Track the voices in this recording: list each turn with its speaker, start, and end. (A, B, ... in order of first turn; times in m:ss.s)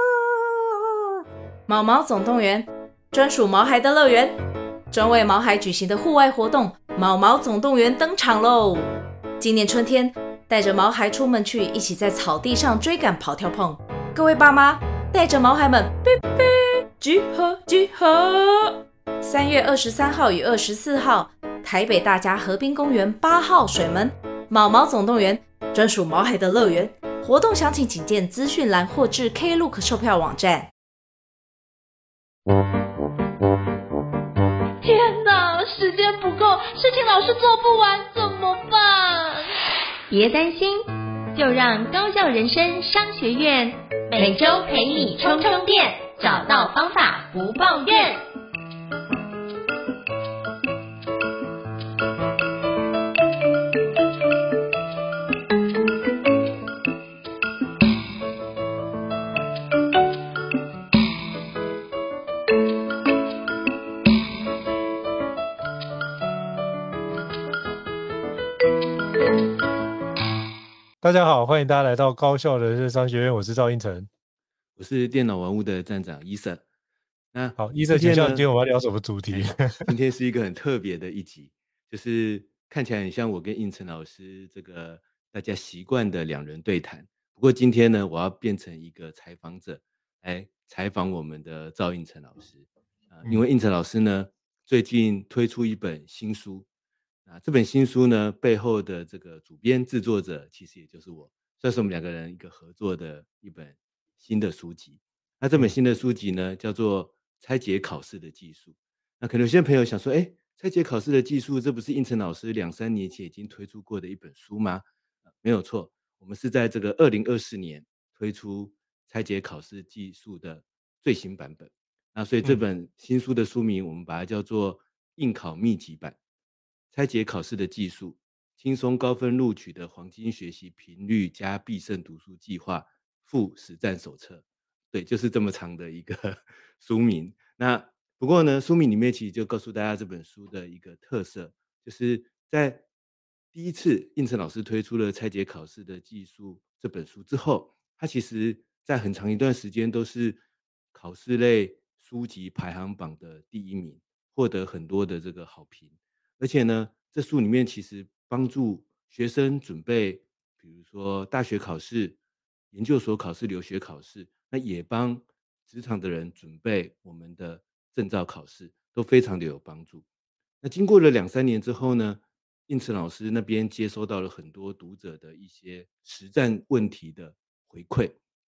0:01.7-0:04.4 A
0:04.9-0:08.9 A
0:09.4-0:30.7 A
0:34.8-0:39.4 B
0:36.1-0:36.4 A
0:40.1-0:48.2 C
1:11.0-1:14.1 D
1:14.8-1:16.6 E
1:17.3-1:18.5 E
1:17.6-1:19.8 D
1:19.3-1:36.6 E
1:37.2-1:54.8 E
1:55.4-2:06.2 E
2:06.9-2:22.8 E
2:23.5-2:30.4 E
2:30.9-2:42.2 E
2:42.7-2:50.0 E
2:50.6-2:58.2 E